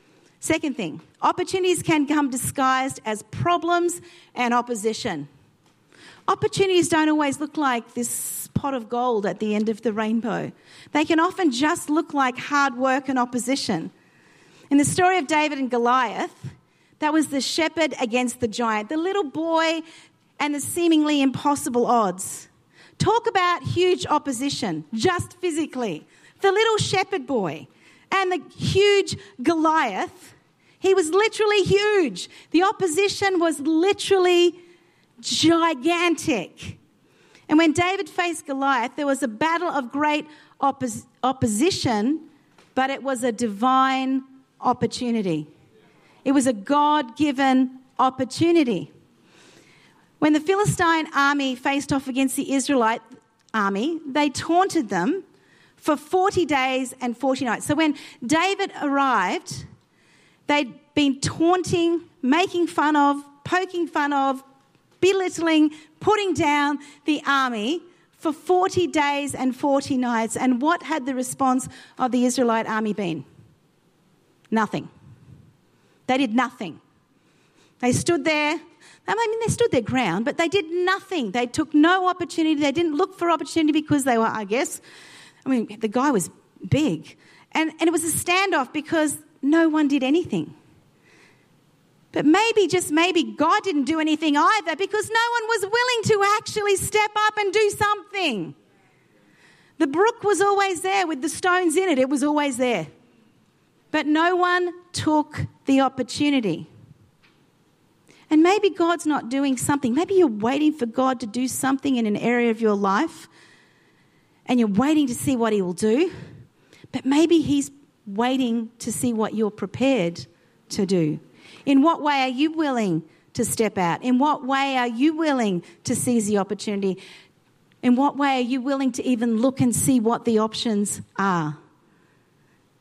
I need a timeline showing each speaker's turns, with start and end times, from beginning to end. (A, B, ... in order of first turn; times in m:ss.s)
0:00.4-0:05.3 A
0:06.3-0:13.9 A
0:14.7-0:19.8 A
0:20.4-0:34.6 A
0:35.2-0:36.8 A
0:37.5-0:45.5 A
0:46.2-0:48.9 A
0:50.2-0:53.0 A
0:53.5-0:55.2 A
0:55.8-0:59.7 A
1:00.5-1:04.4 A
1:05.0-1:13.2 A
1:14.5-1:14.9 A
1:16.1-1:16.8 A
1:17.8-1:24.8 A
1:25.4-1:30.5 A
1:32.1-1:38.5 A
1:39.8-1:42.9 A
1:43.9-1:46.7 A
1:48.3-1:53.3 A
1:54.5-1:56.1 A
1:56.9-2:07.0 A
2:07.8-2:11.6 A